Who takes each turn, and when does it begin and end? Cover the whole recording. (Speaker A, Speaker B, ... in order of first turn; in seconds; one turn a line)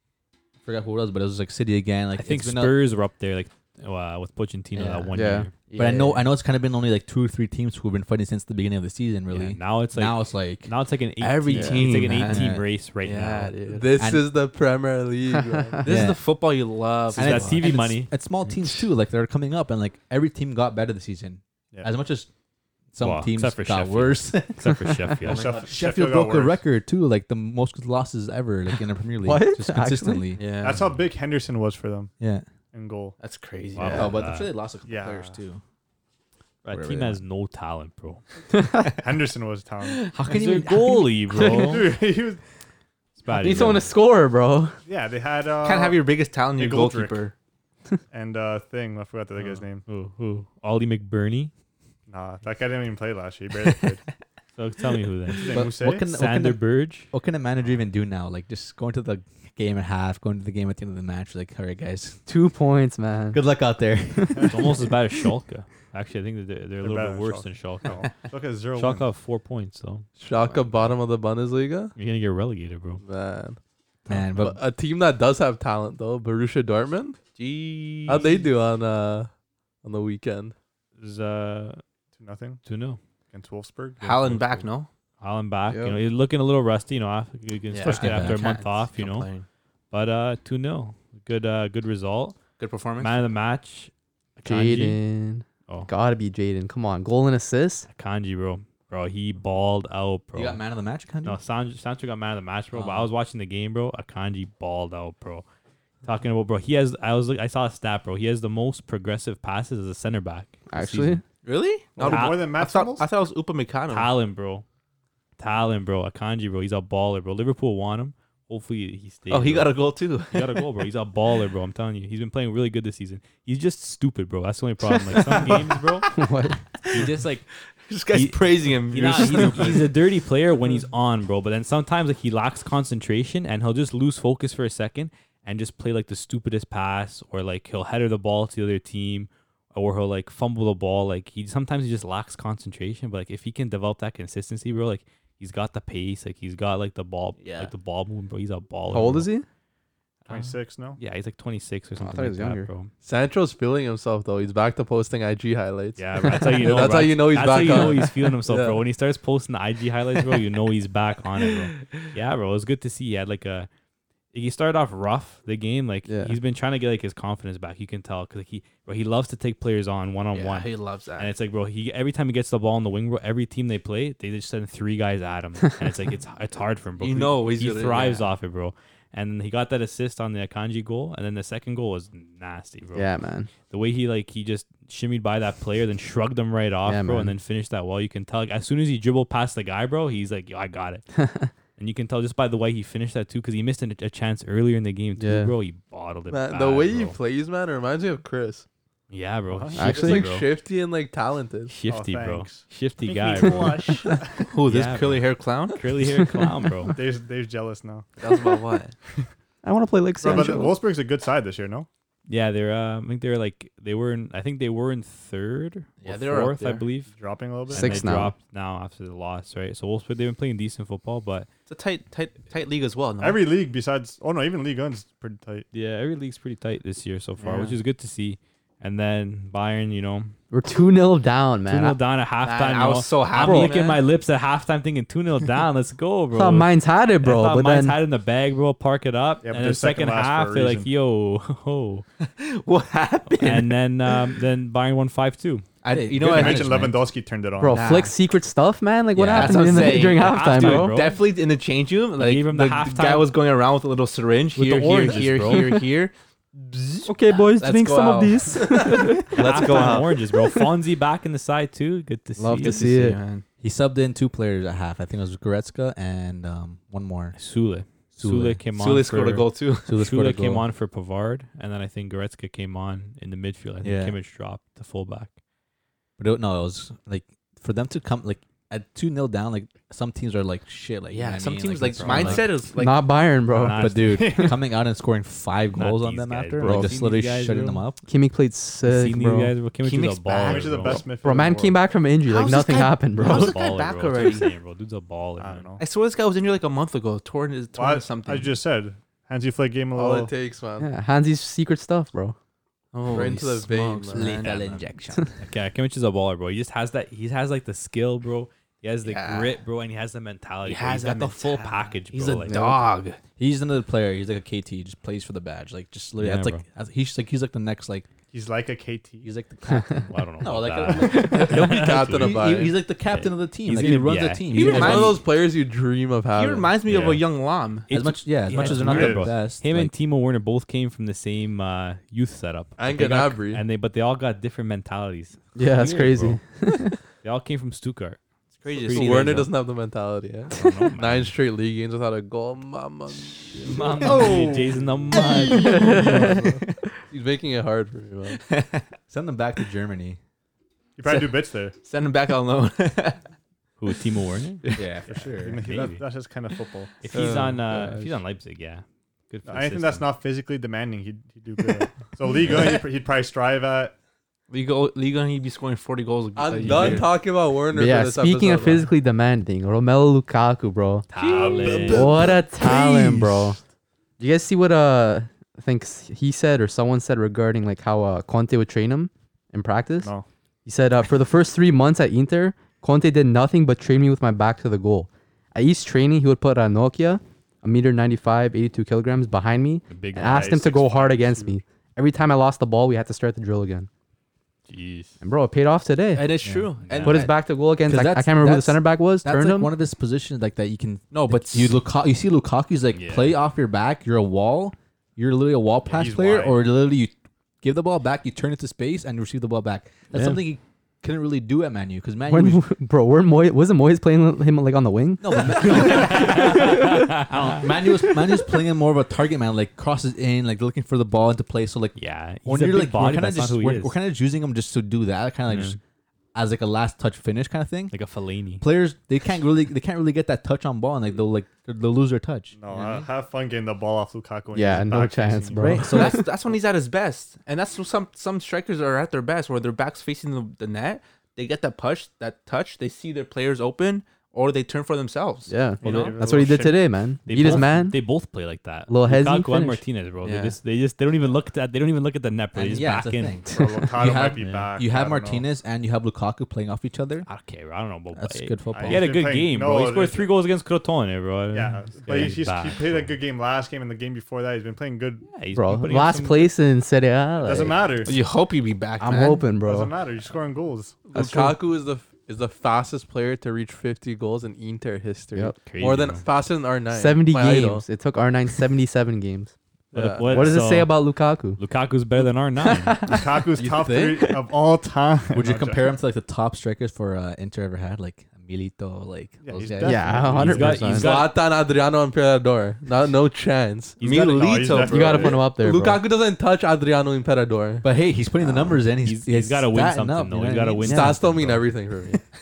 Speaker A: 0.6-2.8
Speaker B: 2.2-5.5
Speaker C: 4.8-6.2
Speaker D: 5.1-5.5
Speaker A: 5.8-10.7
Speaker B: 9.3-13.6
Speaker C: 11.2-13.9
Speaker D: 11.5-11.9
Speaker A: 12.1-12.7
Speaker E: 13.6-15.9
Speaker A: 14.0-14.3
Speaker D: 15.3-15.8
Speaker C: 15.8-17.8
Speaker A: 15.8-16.2
Speaker B: 17.1-18.6
Speaker A: 17.1-22.3
Speaker A: 22.9-30.4
Speaker B: 23.0-25.4
Speaker C: 25.2-25.6
Speaker F: 25.2-26.6
Speaker D: 29.2-30.2
Speaker C: 30.4-30.9
Speaker F: 30.6-32.1
Speaker A: 32.2-32.5
Speaker F: 32.7-33.2
Speaker C: 33.2-34.1
Speaker B: 33.8-34.5
Speaker A: 33.8-35.6
Speaker F: 34.9-35.4
Speaker B: 36.6-38.2
Speaker A: 36.7-37.2
Speaker D: 38.5-38.9
Speaker F: 39.0-40.0
Speaker A: 40.1-41.5
Speaker B: 40.3-41.9
Speaker D: 41.4-41.8
Speaker F: 41.4-42.4
Speaker B: 43.2-43.9
Speaker D: 43.3-44.8
Speaker F: 44.9-46.0
Speaker C: 45.6-47.3
Speaker F: 46.6-47.2
Speaker F: 48.1-49.9
Speaker B: 49.4-51.5
Speaker F: 52.1-54.0
Speaker B: 54.6-57.1
Speaker F: 55.4-56.1
Speaker A: 55.5-62.2
Speaker D: 62.3-63.4
Speaker A: 63.3-64.5
Speaker D: 64.2-64.4
Speaker B: 64.5-68.1
Speaker F: 66.8-69.1
Speaker B: 68.8-70.1
Speaker E: 70.2-72.0
Speaker B: 72.0-73.0
Speaker E: 73.0-73.6
Speaker A: 74.1-74.6
Speaker E: 74.4-77.2
Speaker C: 77.4-78.3
Speaker E: 78.1-79.3
Speaker E: 79.8-80.5
Speaker B: 81.0-81.8
Speaker F: 82.2-82.6
Speaker B: 82.7-83.0
Speaker F: 83.3-84.4
Speaker C: 84.0-84.9
Speaker B: 85.2-89.3
Speaker E: 85.7-86.0
Speaker C: 87.7-89.5
Speaker A: 87.8-88.5
Speaker B: 89.9-92.4
Speaker C: 92.6-93.2
Speaker B: 93.0-95.0
Speaker D: 94.5-97.9
Speaker B: 97.9-100.6
Speaker A: 100.3-101.4
Speaker B: 101.2-105.5
Speaker C: 102.7-103.1
Speaker B: 106.0-111.2
Speaker D: 110.7-111.2
Speaker C: 111.4-114.1
Speaker F: 112.0-113.1
Speaker B: 112.1-112.4
Speaker B: 113.9-114.7
Speaker B: 115.4-119.8
Speaker C: 119.3-120.6
Speaker B: 120.3-126.1
Speaker C: 125.1-126.1
Speaker D: 126.1-126.6
Speaker C: 126.8-127.2
Speaker B: 126.9-127.5
Speaker C: 127.9-129.9
Speaker B: 128.1-149.3
Speaker C: 147.4-147.7
Speaker D: 148.9-149.4
Speaker F: 150.3-151.0
Speaker B: 151.0-152.9
Speaker D: 152.0-152.7
Speaker E: 153.0-158.8
Speaker B: 156.0-163.7
Speaker B: 164.3-183.1
Speaker D: 166.1-166.3
Speaker C: 170.3-171.3
Speaker C: 177.0-178.3
Speaker D: 182.9-183.5
Speaker B: 183.7-191.1
Speaker D: 186.9-187.3
Speaker D: 191.2-191.5
Speaker B: 191.8-197.2
Speaker D: 195.2-195.5
Speaker E: 196.3-198.7
Speaker B: 199.1-200.5
Speaker F: 199.5-200.0
Speaker D: 199.8-200.3
Speaker E: 199.8-201.7
Speaker B: 201.7-204.0
Speaker F: 201.9-204.5
Speaker C: 204.5-205.9
Speaker B: 204.7-207.0
Speaker F: 206.9-208.4
Speaker C: 208.2-208.9
Speaker D: 209.6-210.8
Speaker F: 210.2-211.9
Speaker B: 212.3-217.1
Speaker C: 216.0-216.9
Speaker F: 217.1-218.1
Speaker B: 217.7-221.5
Speaker D: 217.8-218.3
Speaker C: 221.7-223.4
Speaker F: 223.2-225.7
Speaker B: 225.7-230.3
Speaker C: 227.4-227.8
Speaker D: 230.5-232.0
Speaker B: 231.7-236.7
Speaker C: 232.4-234.0
Speaker D: 233.4-233.7
Speaker D: 236.3-238.0
Speaker B: 237.2-242.1
Speaker F: 239.4-240.9
Speaker C: 242.2-243.8
Speaker B: 243.4-245.7
Speaker C: 245.8-246.7
Speaker A: 245.9-247.0
Speaker F: 246.2-248.0
Speaker D: 247.6-251.0
Speaker C: 247.7-248.2
Speaker A: 249.2-250.0
Speaker C: 249.3-260.1
Speaker B: 250.0-251.2
Speaker B: 252.2-253.3
Speaker B: 254.6-255.8
Speaker D: 257.1-259.3
Speaker B: 259.4-262.8
Speaker F: 259.4-260.0
Speaker D: 260.3-260.6
Speaker D: 262.4-263.2
Speaker C: 262.6-263.4
Speaker A: 263.6-267.4
Speaker B: 267.4-275.3
Speaker A: 268.1-268.6
Speaker C: 268.8-269.9
Speaker A: 269.9-270.7
Speaker A: 273.8-274.2
Speaker A: 276.2-282.5
Speaker C: 281.1-283.0
Speaker B: 282.0-282.5
Speaker D: 282.8-284.3
Speaker B: 283.5-284.4
Speaker A: 283.7-288.0
Speaker F: 283.7-284.6
Speaker B: 285.7-287.8
Speaker D: 286.6-286.9
Speaker D: 288.1-289.5
Speaker B: 288.8-291.1
Speaker C: 289.8-291.0
Speaker F: 290.4-291.8
Speaker D: 291.2-293.6
Speaker C: 292.3-294.5
Speaker B: 293.2-295.7
Speaker F: 295.4-295.8
Speaker C: 295.8-298.5
Speaker F: 297.8-300.3
Speaker E: 299.9-300.9
Speaker D: 300.8-302.4
Speaker C: 302.9-305.1
Speaker E: 303.1-304.4
Speaker A: 304.1-305.4
Speaker B: 304.4-304.8
Speaker B: 305.4-312.6
Speaker C: 309.0-309.6
Speaker C: 310.6-313.2
Speaker D: 312.5-312.8
Speaker A: 313.4-318.1
Speaker B: 316.2-316.6
Speaker F: 318.3-319.3
Speaker A: 319.2-325.2
Speaker B: 320.0-322.4
Speaker E: 321.0-322.8
Speaker B: 323.1-325.2
Speaker C: 324.5-325.2
Speaker E: 324.6-326.8
Speaker C: 326.4-327.9
Speaker B: 326.9-327.2
Speaker B: 327.9-336.4
Speaker A: 327.9-329.9
Speaker C: 328.5-328.8
Speaker F: 328.8-329.3
Speaker E: 332.8-333.6
Speaker D: 335.6-337.0
Speaker B: 337.1-338.2
Speaker C: 338.6-339.5
Speaker B: 338.8-339.5
Speaker E: 338.8-344.3
Speaker B: 340.5-341.3
Speaker D: 340.6-340.9
Speaker B: 343.6-346.0
Speaker F: 344.0-344.8
Speaker D: 345.5-346.4
Speaker E: 345.6-346.6
Speaker E: 347.1-348.4
Speaker C: 348.3-348.8
Speaker A: 349.1-350.2
Speaker F: 351.0-351.8
Speaker C: 351.1-353.2
Speaker B: 353.8-354.7
Speaker A: 354.7-355.8
Speaker F: 355.1-357.0
Speaker B: 355.6-356.0
Speaker B: 357.0-360.1
Speaker E: 357.1-357.6
Speaker F: 359.5-363.9
Speaker C: 364.5-367.1
Speaker E: 366.4-368.9
Speaker B: 366.6-367.1
Speaker D: 367.7-371.1
Speaker B: 371.1-372.3
Speaker C: 371.2-371.9
Speaker E: 371.2-372.7
Speaker D: 371.8-373.6
Speaker D: 374.2-380.1
Speaker D: 380.6-393.9
Speaker B: 389.9-390.7
Speaker F: 390.3-391.5
Speaker B: 394.7-395.2
Speaker D: 395.2-396.3
Speaker C: 396.1-397.3
Speaker A: 396.4-397.0
Speaker B: 396.9-397.2
Speaker D: 397.0-399.7
Speaker A: 397.8-412.6
Speaker C: 401.1-401.8
Speaker B: 402.9-403.4
Speaker F: 405.9-406.6
Speaker B: 410.1-410.4
Speaker D: 412.3-417.1
Speaker A: 415.2-425.8
Speaker B: 415.7-417.5
Speaker B: 422.0-423.9
Speaker B: 425.5-425.8
Speaker A: 426.3-428.0
Speaker B: 427.9-428.6
Speaker A: 428.6-433.0
Speaker F: 432.6-435.9
Speaker D: 434.5-436.3
Speaker A: 435.6-436.2
Speaker C: 435.9-446.2
Speaker D: 445.5-448.0
Speaker F: 445.8-446.8
Speaker B: 447.3-453.4
Speaker D: 448.9-449.8
Speaker C: 450.2-450.6
Speaker A: 452.6-457.3
Speaker F: 453.5-455.4
Speaker B: 454.4-454.7
Speaker B: 457.3-463.2
Speaker A: 458.1-459.1
Speaker F: 458.7-460.3
Speaker F: 461.5-465.3
Speaker B: 465.3-466.5
Speaker D: 465.5-467.9
Speaker F: 467.4-468.2
Speaker C: 468.1-469.5
Speaker D: 469.0-469.9
Speaker F: 469.6-471.1
Speaker E: 471.1-477.8
Speaker D: 471.1-471.6
Speaker D: 475.3-475.7
Speaker B: 475.6-476.3
Speaker D: 476.9-479.5
Speaker E: 479.9-480.6
Speaker B: 479.9-481.0
Speaker D: 480.3-481.6
Speaker B: 481.6-483.0
Speaker F: 483.1-485.9
Speaker E: 483.6-484.2
Speaker A: 483.6-484.2
Speaker A: 485.3-490.6
Speaker F: 489.4-490.8
Speaker D: 489.8-491.1
Speaker B: 490.2-491.4
Speaker E: 490.9-494.1
Speaker C: 494.0-495.4
Speaker F: 494.3-495.5
Speaker D: 494.8-496.0
Speaker E: 495.0-497.9
Speaker A: 497.8-501.0
Speaker B: 499.0-501.6
Speaker E: 500.9-502.2
Speaker D: 500.9-501.2